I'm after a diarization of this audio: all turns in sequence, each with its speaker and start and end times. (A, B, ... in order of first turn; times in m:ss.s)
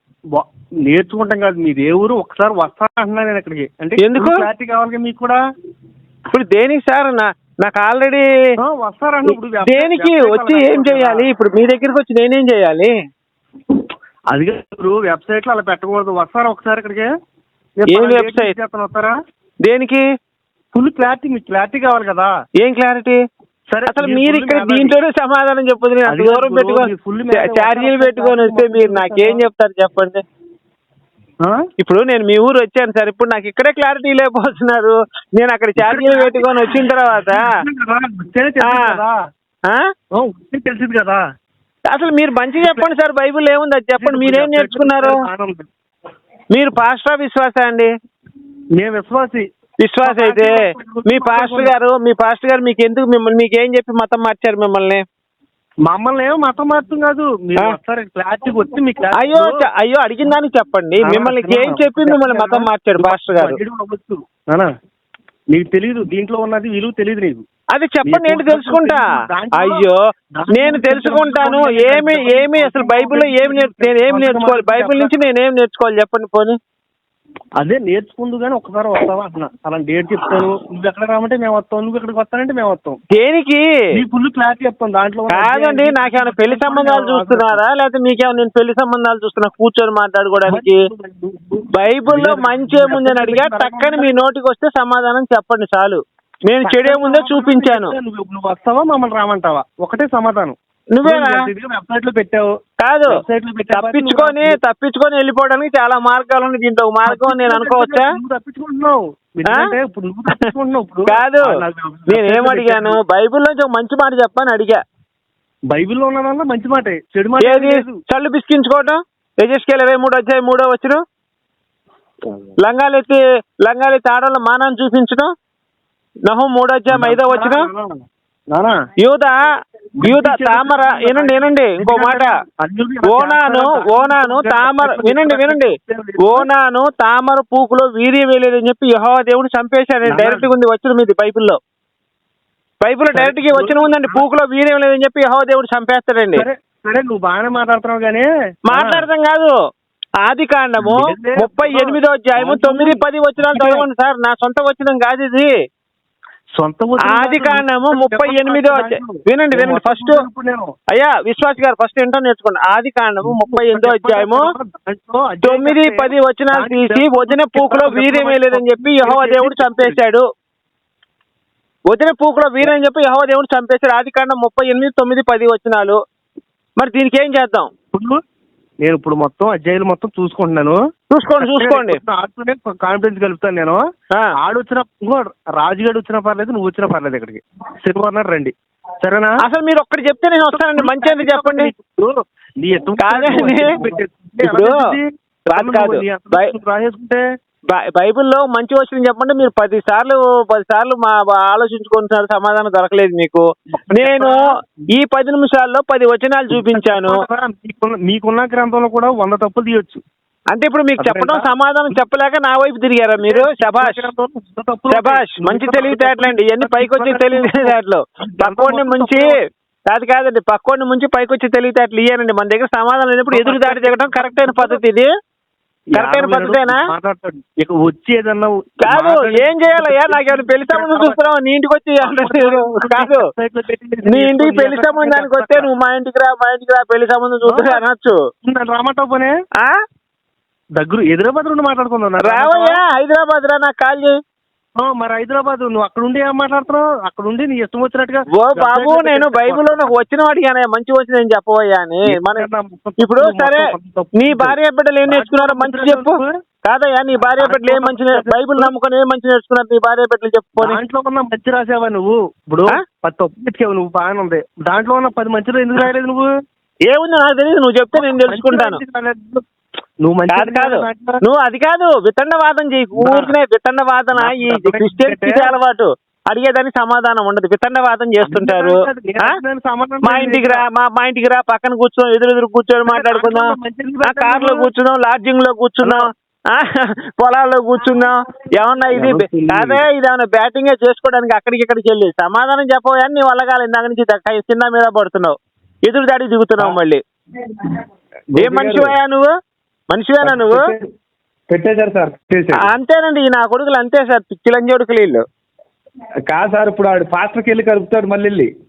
0:00.3-0:05.4 A
0:04.0-0:04.5 B
0:06.3-0:08.3 B
0:08.6-0:11.2 A
0:09.3-0:12.9 B
0:14.3-0:17.1 A
0:17.8-0:19.2 A
0:17.9-0:18.5 B
0:19.6-0:20.0 B
0:20.7-0:22.3 A
0:22.6-0:23.2 B
0:23.7-0:25.0 A
0:23.9-0:30.2 B
0:26.1-0:29.4 A
0:31.8-0:37.6 B
0:35.8-0:39.2 A
0:38.6-0:39.0 B
0:40.2-0:41.2 A
0:41.9-0:45.2 B
0:42.6-0:42.9 A
0:44.0-0:45.7 A
0:46.5-0:47.9 B
0:48.8-0:49.4 A
0:49.8-0:55.0 B
0:50.0-0:51.7 A
0:55.9-0:59.6 A
0:59.1-1:03.6 B
1:01.0-1:04.7 A
1:05.5-1:07.4 A
1:07.7-1:10.0 B
1:08.0-1:09.8 A
1:10.4-1:15.2 A
1:10.5-1:16.6 B
1:17.6-1:23.0 A
1:23.1-1:23.6 B
1:24.0-1:27.6 A
1:25.3-1:30.8 B
1:30.5-1:34.1 A
1:31.7-1:37.9 B
1:36.6-1:42.5 A
1:40.9-1:41.4 B
1:42.8-1:43.2 B
1:43.1-1:44.6 A
1:43.7-1:48.1 B
1:47.1-1:53.0 A
1:51.1-1:51.5 B
1:52.1-1:54.8 B
1:55.7-1:58.0 A
1:57.4-2:01.0 B
2:02.6-2:05.3 B
2:06.3-2:07.7 B
2:06.9-2:07.9 A
2:09.0-2:09.4 B
2:10.0-2:12.4 B
2:10.0-2:16.5 A
2:13.0-2:21.6 B
2:20.1-2:20.5 A
2:22.8-2:26.5 B
2:23.1-2:24.2 A
2:26.4-2:29.1 A
2:28.7-2:29.5 B
2:30.2-2:35.5 B
2:30.8-2:33.9 A
2:36.6-2:40.7 A
2:37.0-2:40.2 B
2:40.9-2:44.5 B
2:43.2-2:50.0 A
2:45.4-2:50.2 B
2:51.9-2:56.0 B
2:56.8-2:57.7 B
2:57.9-2:58.2 A
2:58.8-3:00.8 A
3:01.1-3:02.0 B
3:01.4-3:03.8 A
3:04.1-3:04.4 B
3:04.4-3:09.3 A
3:09.4-3:11.7 B
3:10.5-3:15.0 A
3:13.0-3:13.8 B
3:14.4-3:15.0 B
3:15.5-3:16.5 B
3:15.6-3:17.2 A
3:17.7-3:27.3 B
3:23.9-3:24.4 A
3:26.5-3:30.0 A
3:30.5-3:34.1 B
3:31.0-3:31.5 A
3:33.3-3:39.3 A
3:34.9-3:45.1 B
3:43.3-3:44.8 A
3:45.9-3:46.9 B
3:45.9-3:51.2 A
3:48.8-3:53.3 B
3:52.0-3:55.7 A
3:54.1-3:58.2 B
3:57.5-3:57.8 A
3:58.4-3:59.3 A
4:00.8-4:02.8 A
4:02.2-4:04.2 B
4:04.8-4:09.9 A
4:08.3-4:12.5 B
4:12.2-4:16.3 A
4:13.0-4:20.8 B
4:17.2-4:18.7 A
4:20.6-4:26.2 A
4:26.9-4:28.8 B
4:27.9-4:29.4 A
4:30.0-4:31.2 A
4:30.3-4:39.4 B
4:33.0-4:33.3 A
4:34.2-4:35.5 A
4:38.2-4:40.6 A
4:40.0-4:57.0 B
4:42.9-4:44.7 A
4:48.9-4:49.8 A
4:58.3-4:58.9 C
4:58.4-4:59.3 B
4:59.9-5:00.7 B
5:00.2-5:00.8 C
5:01.5-5:02.6 C
5:02.5-5:05.2 B
5:06.3-5:08.5 C